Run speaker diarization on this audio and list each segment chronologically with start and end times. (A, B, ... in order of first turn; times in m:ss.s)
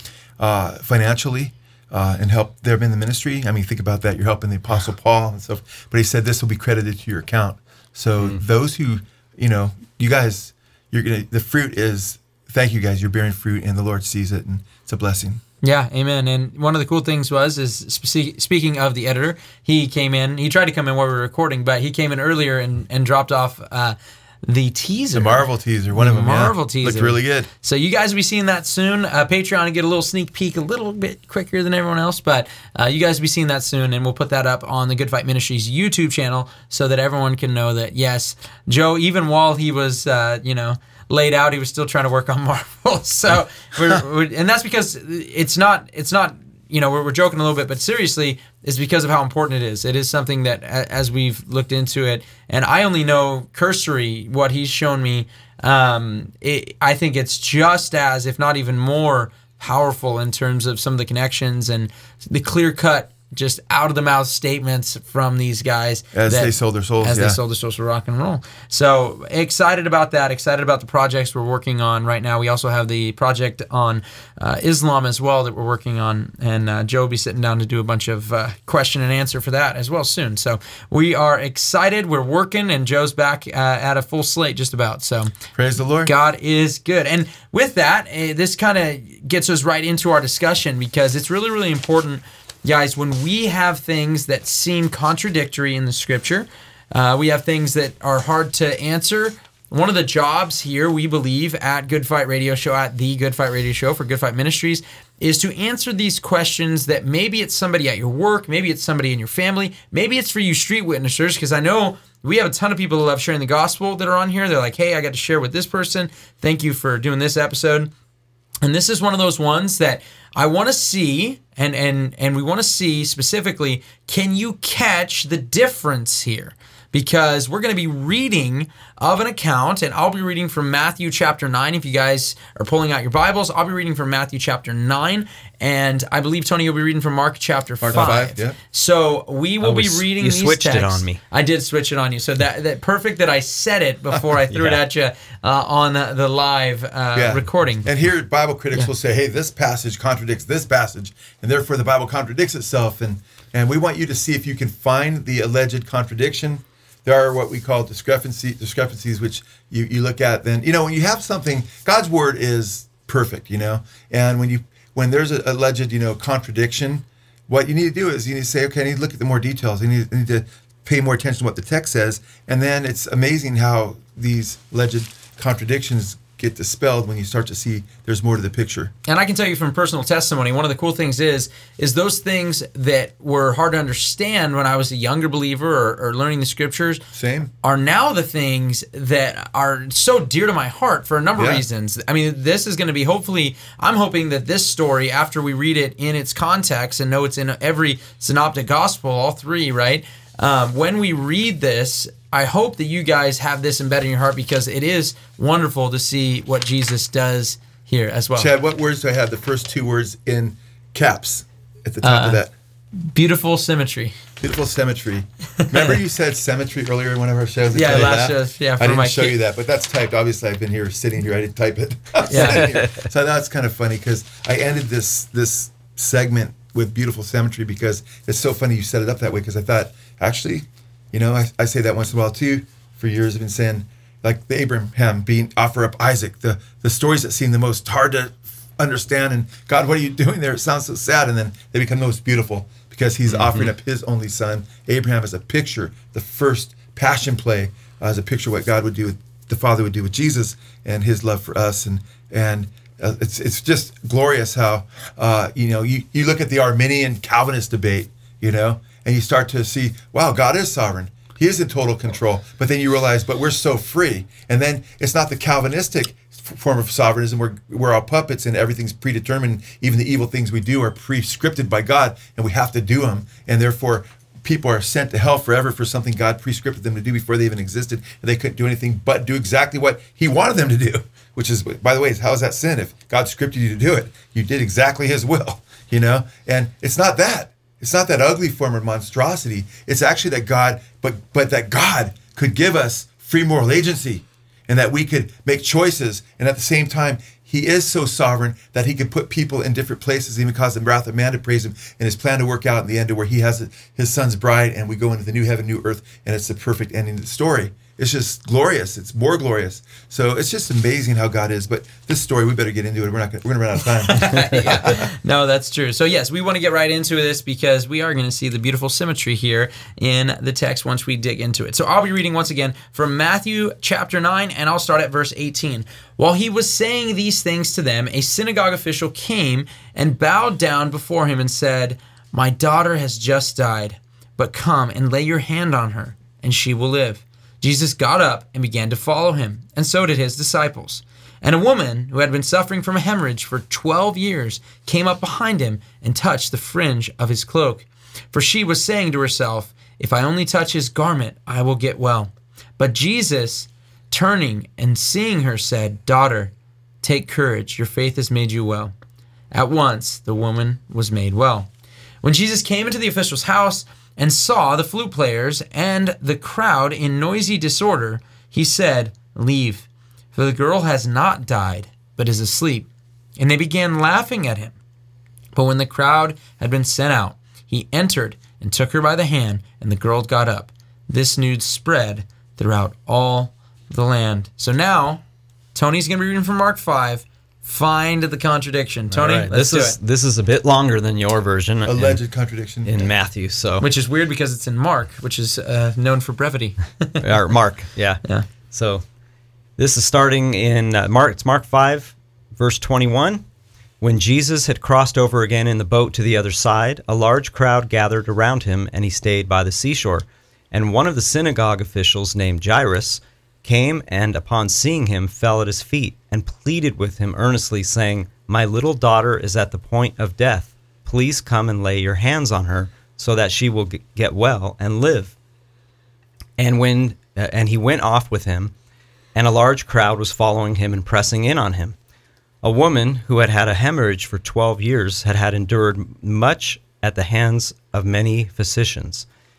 0:00.4-0:15.4 A
0:15.6-1:25.3 B
0:25.1-0:27.5 A
1:06.1-1:07.4 A
1:25.6-1:26.1 A
1:26.0-1:57.9 B
1:58.6-2:27.9 B
2:17.8-2:18.6 A
2:19.6-2:21.2 C
2:24.5-2:24.8 C
2:27.1-2:58.9 A
2:59.1-3:07.0 B
3:07.1-3:07.5 A
3:07.6-3:28.5 B
3:11.4-3:11.6 A
3:28.4-3:32.5 A
3:32.0-3:32.4 B
3:33.0-3:34.1 B
3:34.4-5:15.1 A
3:35.6-3:36.0 B
3:37.7-3:39.3 B
3:42.3-3:42.7 B
3:42.4-3:43.0 C
4:03.3-4:03.7 C
5:14.1-5:58.9 B
5:59.5-6:01.7 B
6:02.2-6:12.9 B
6:13.4-6:14.8 B
6:15.5-6:25.2 B
6:25.7-6:30.0 B
6:29.1-6:32.2 C
6:31.8-6:33.1 A
6:32.8-6:33.8 C
6:33.8-6:37.2 B
6:37.2-6:39.0 C
6:39.8-6:43.4 C
6:44.0-7:05.3 C
7:06.6-7:08.7 C
7:09.3-7:12.0 C
7:12.6-7:19.2 C